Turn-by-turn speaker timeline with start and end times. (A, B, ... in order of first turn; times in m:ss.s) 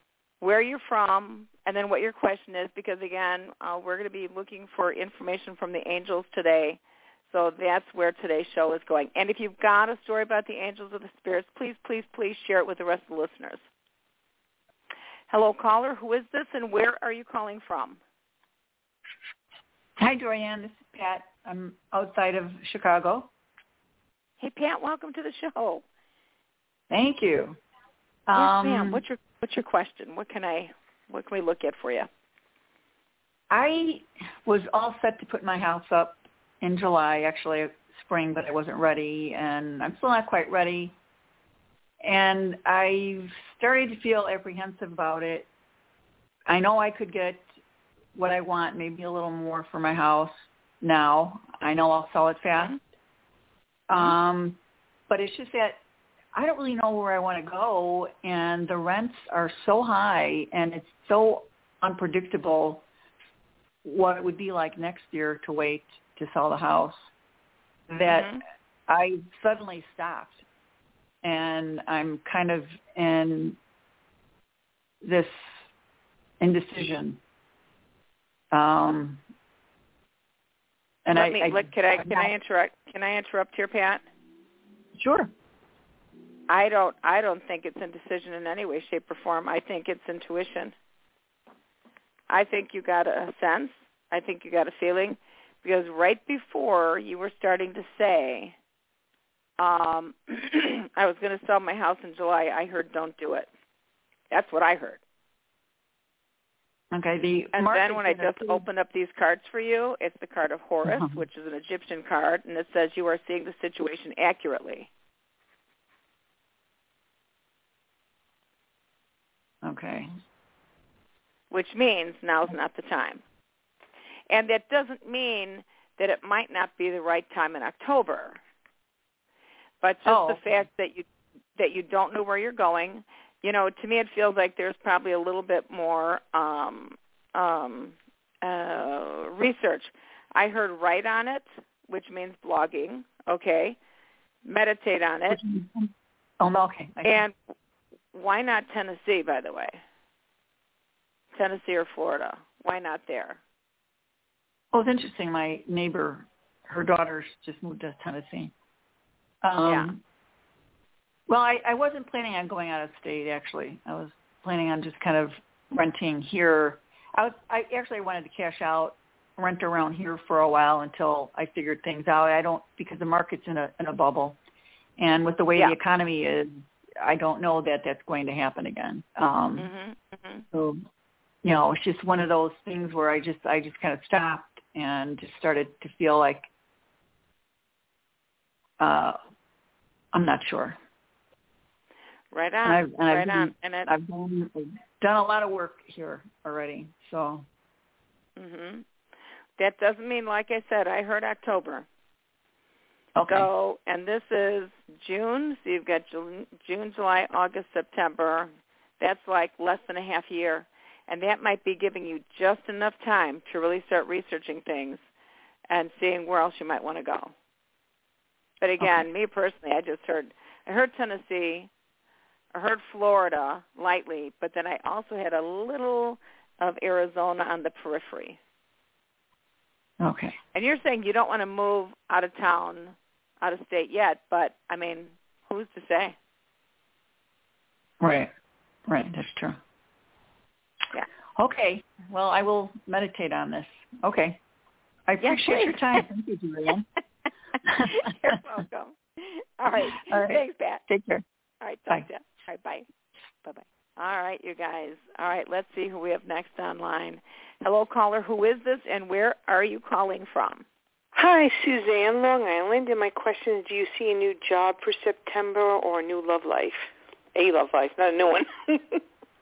0:00.4-0:13.6 A
0:15.3-0:18.0 A
0:20.0-0:23.3 B
0:24.4-0:25.8 A
0:26.9-0:27.6 B
0:28.3-0:29.0 B
0:28.3-0:32.1 A
0:33.5-0:41.0 B
0:42.0-0:45.5 B
0:46.5-0:47.4 B
0:48.1-0:52.8 B
0:53.9-0:55.8 B
0:56.3-1:02.8 B
1:03.8-1:07.1 B
1:07.9-1:10.4 B
1:08.0-1:08.4 A
1:11.2-1:13.6 B
1:15.0-1:15.5 B
1:16.4-1:17.2 B
1:18.5-1:19.2 B
1:21.0-1:22.3 B
1:21.1-1:24.0 A
1:25.0-1:25.3 B
1:26.5-1:30.7 A
1:32.3-1:38.5 A
1:39.6-1:43.5 A
1:44.3-1:45.0 A
1:46.9-1:48.6 B
1:47.5-1:54.9 A
1:50.8-1:51.2 B
1:59.6-2:00.1 B
2:01.5-2:03.2 A
2:04.3-2:08.4 A
2:09.8-2:11.0 A
2:10.0-2:10.4 B
2:11.6-2:23.8 A
2:24.4-2:25.4 A
2:25.3-2:27.3 B
2:27.0-2:27.3 A
2:28.1-2:29.8 A
2:31.3-2:33.4 A
2:34.7-2:38.5 B
2:39.4-2:40.0 B
2:39.6-2:39.9 A
2:41.3-2:54.4 B
2:55.0-2:59.7 B
2:59.6-3:00.4 A
3:00.5-3:00.8 B
3:01.4-3:06.5 B
3:08.8-3:09.2 B
3:10.1-3:10.8 B
3:12.3-3:13.9 A
3:12.6-3:17.4 B
3:18.4-3:18.8 A
3:19.6-3:21.8 A
3:23.2-3:23.5 B
3:23.3-3:35.0 A
3:35.7-3:37.3 A
3:38.6-3:41.7 A
3:42.5-3:48.4 A
3:50.0-3:50.4 B
3:50.5-3:56.2 A
3:58.0-3:58.3 B
3:58.9-3:59.6 B
4:01.4-4:04.4 B
4:05.1-4:06.8 B
4:05.2-4:06.0 A
4:07.6-4:08.4 B
4:07.9-4:10.8 A
4:09.8-4:11.2 B
4:11.6-4:12.8 A
4:13.4-4:20.6 A
4:21.1-4:29.0 C